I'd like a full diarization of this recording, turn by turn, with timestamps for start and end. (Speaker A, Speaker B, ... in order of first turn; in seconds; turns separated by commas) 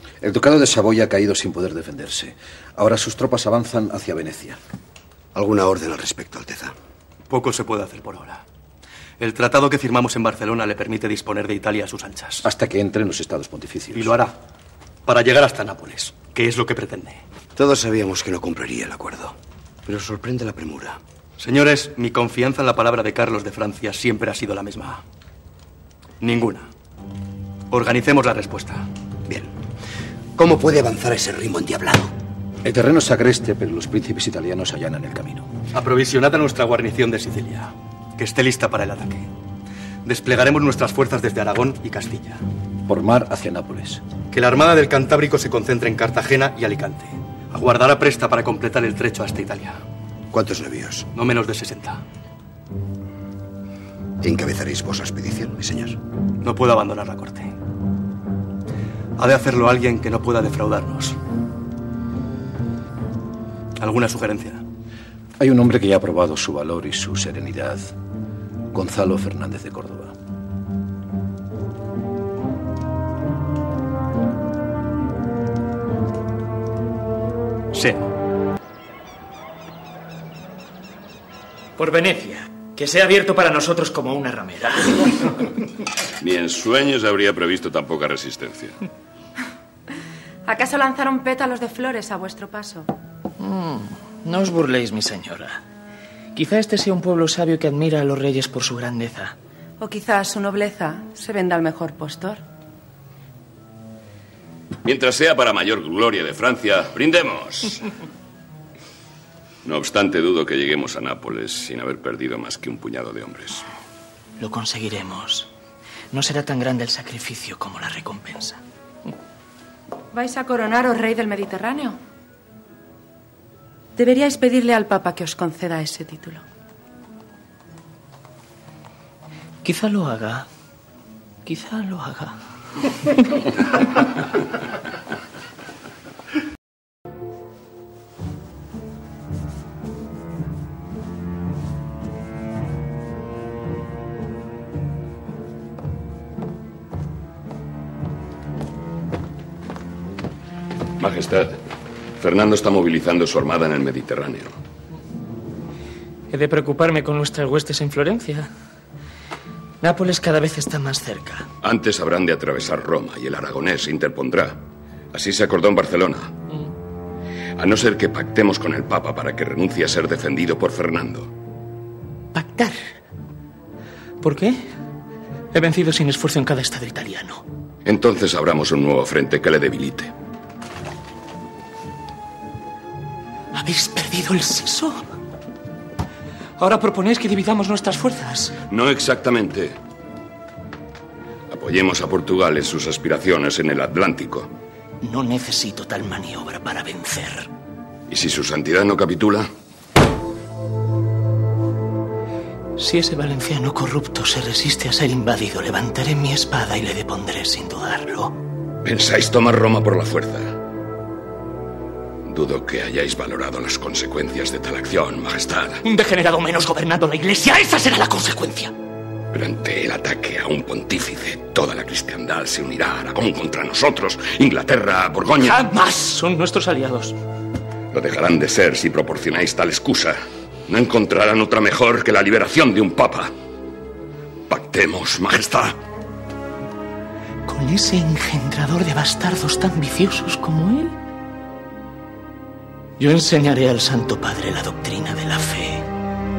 Speaker A: 0.2-4.6, Speaker B: 5.3-6.7, Speaker C: 7.3-8.4, Speaker C: 9.2-12.4, Speaker A: 12.4-14.1, Speaker C: 13.9-14.3, Speaker C: 15.1-17.2, Speaker B: 17.6-21.0, Speaker C: 21.4-25.0, Speaker C: 26.2-26.7, Speaker C: 27.7-28.8, Speaker B: 29.3-29.5, Speaker B: 30.4-32.1, Speaker A: 32.6-35.5, Speaker C: 35.7-39.3, Speaker C: 40.0-42.4, Speaker A: 42.9-44.0, Speaker C: 44.3-49.8, Speaker B: 50.3-51.1, Speaker C: 51.1-52.0, Speaker B: 54.2-56.0, Speaker C: 56.4-57.5, Speaker C: 59.2-61.2, Speaker C: 63.8-64.6, Speaker A: 65.4-67.8, Speaker A: 68.7-70.1, Speaker C: 77.7-78.0, Speaker D: 81.8-85.4, Speaker E: 86.2-88.8, Speaker F: 90.5-92.9, Speaker D: 93.4-95.6, Speaker D: 96.3-99.3, Speaker F: 99.8-102.4, Speaker E: 104.8-107.7, Speaker E: 109.6-113.6, Speaker D: 114.4-115.5, Speaker D: 116.1-118.6, Speaker F: 120.1-122.0, Speaker F: 124.0-126.4, Speaker D: 129.6-130.5, Speaker D: 131.4-132.3, Speaker E: 151.0-151.6, Speaker E: 152.2-154.5, Speaker D: 156.3-158.5, Speaker D: 159.8-161.5, Speaker E: 161.6-164.5, Speaker E: 165.1-166.3, Speaker E: 167.6-171.3, Speaker D: 172.3-172.8, Speaker D: 174.2-174.6, Speaker D: 175.5-177.4, Speaker E: 177.8-180.1, Speaker D: 183.5-185.0, Speaker D: 186.6-188.6, Speaker E: 188.7-189.7, Speaker E: 191.5-194.5, Speaker D: 195.0-197.5, Speaker E: 198.1-199.4, Speaker D: 202.8-208.3, Speaker E: 208.8-210.5, Speaker E: 212.2-215.8, Speaker D: 215.8-218.7, Speaker E: 219.3-225.5, Speaker D: 225.4-227.1, Speaker E: 227.9-230.2, Speaker E: 230.7-233.3, Speaker E: 234.5-235.7, Speaker D: 237.4-241.0, Speaker D: 243.0-245.8